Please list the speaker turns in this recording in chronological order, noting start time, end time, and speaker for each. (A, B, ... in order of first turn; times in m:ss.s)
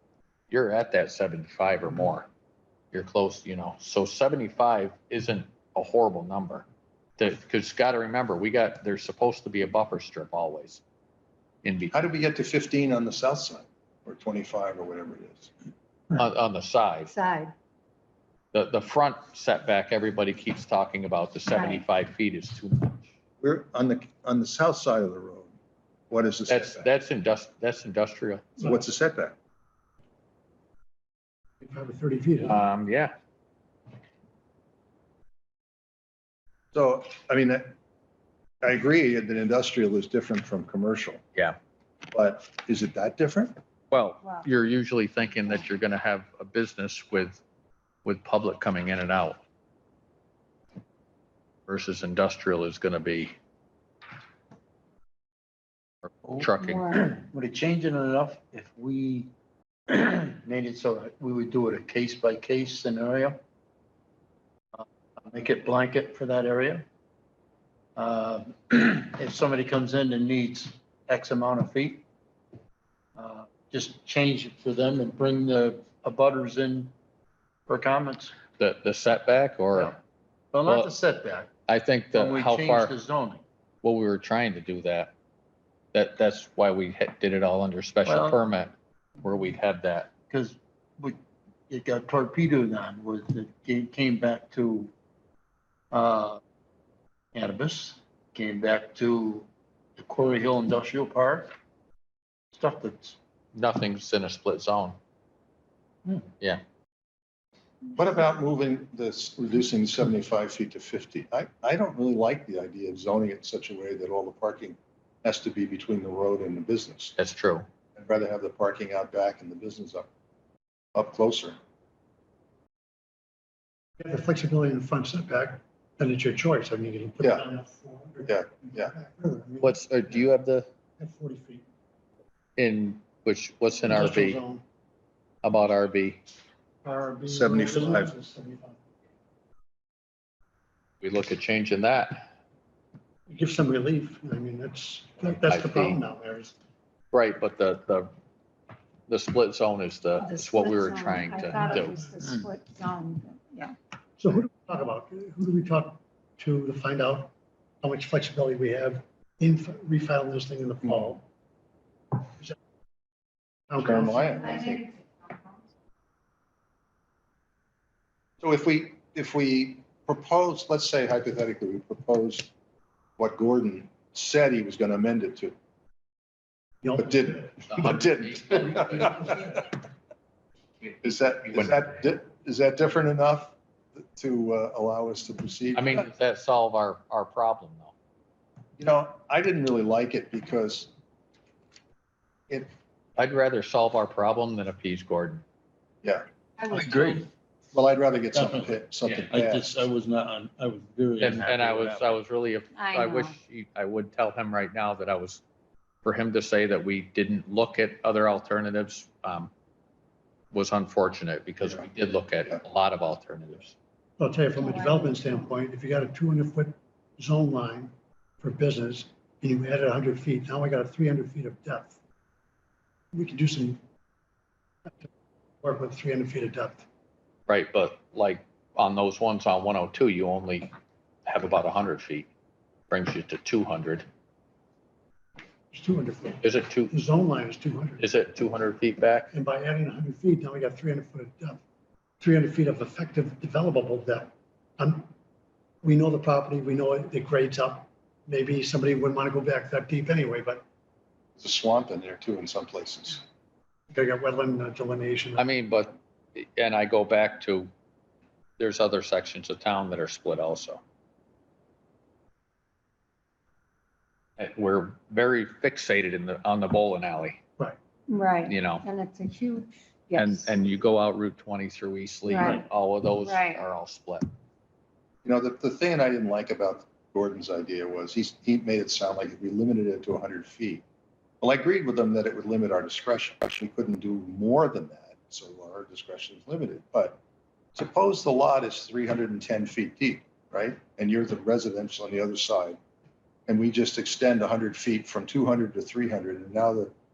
0:00.5-0:02.3 A
0:02.9-0:06.6 A
0:07.2-0:10.8 A
0:11.6-0:11.9 A
0:11.9-0:15.5 B
0:16.1-0:17.1 A
0:17.1-0:17.5 C
0:18.5-0:23.1 A
0:21.6-0:21.8 C
0:23.4-0:25.5 B
0:26.1-0:26.9 B
0:26.5-0:28.4 A
0:28.6-0:29.4 B
0:31.6-0:32.6 D
0:32.4-0:33.1 A
0:36.7-0:37.7 B
0:38.6-0:41.2 B
0:42.1-0:43.6 B
0:43.9-0:47.4 A
0:48.0-0:49.4 A
0:51.7-0:53.3 A
0:56.2-0:59.3 E
0:56.4-0:56.9 A
0:56.6-0:57.0 C
0:59.9-1:03.4 E
1:04.8-1:06.8 E
1:08.0-1:12.0 E
1:13.2-1:16.9 E
1:17.7-1:18.3 E
1:18.6-1:20.0 A
1:19.7-1:20.0 E
1:20.5-1:21.5 E
1:21.7-1:22.9 A
1:22.1-1:23.4 E
1:23.8-1:25.1 A
1:25.9-1:30.1 A
1:28.0-1:28.4 E
1:30.3-1:34.9 E
1:35.9-1:36.4 E
1:37.3-1:41.5 E
1:42.5-1:43.2 E
1:43.5-1:45.0 A
1:47.9-1:57.1 B
1:57.2-1:57.6 A
1:58.0-2:00.1 B
2:00.9-2:01.6 B
2:04.0-2:10.3 D
2:08.3-2:08.9 B
2:09.6-2:10.7 A
2:11.0-2:11.6 D
2:12.6-2:14.4 A
2:13.9-2:14.6 D
2:15.4-2:16.2 A
2:16.8-2:18.8 D
2:17.3-2:18.1 B
2:21.0-2:22.3 A
2:23.3-2:26.5 D
2:25.4-2:26.0 A
2:27.1-2:28.1 A
2:29.1-2:32.0 A
2:30.2-2:33.7 C
2:31.5-2:32.0 D
2:34.2-2:37.3 D
2:37.8-2:41.2 D
2:40.8-2:41.1 B
2:43.7-2:44.8 D
2:43.8-2:44.8 B
2:48.4-2:52.5 B
2:53.2-2:55.6 B
2:56.8-2:57.6 D
2:57.0-2:59.6 B
2:57.7-2:59.4 A
3:01.0-3:06.1 B
3:05.7-3:07.9 A
3:08.8-3:10.9 B
3:13.2-3:15.4 A
3:16.6-3:16.9 C
3:16.7-3:17.3 E
3:17.7-3:19.7 B
3:18.3-3:22.1 E
3:21.2-3:25.4 A
3:22.8-3:23.4 C
3:26.0-3:29.5 A
3:30.5-3:33.8 A
3:34.2-3:42.0 D
3:34.6-3:35.5 C
3:43.1-3:43.8 D
3:45.6-3:46.8 D
3:47.5-3:50.7 A
3:51.2-3:52.3 A
3:52.9-3:54.0 A
3:55.7-3:58.0 D
3:56.4-3:57.0 A
3:58.0-3:59.3 A
3:59.3-4:01.6 D
4:02.2-4:05.1 D
4:05.8-4:10.6 D
4:11.4-4:13.2 B
4:13.9-4:15.4 D
4:15.4-4:17.7 A
4:18.6-4:20.8 A
4:24.4-4:27.4 A
4:28.1-4:30.6 C
4:28.4-4:28.9 A
4:30.1-4:34.3 A
4:32.3-4:32.6 C
4:33.2-4:33.6 C
4:35.2-4:40.8 B
4:41.4-4:47.2 B
4:47.7-4:52.8 B
4:53.5-4:56.9 B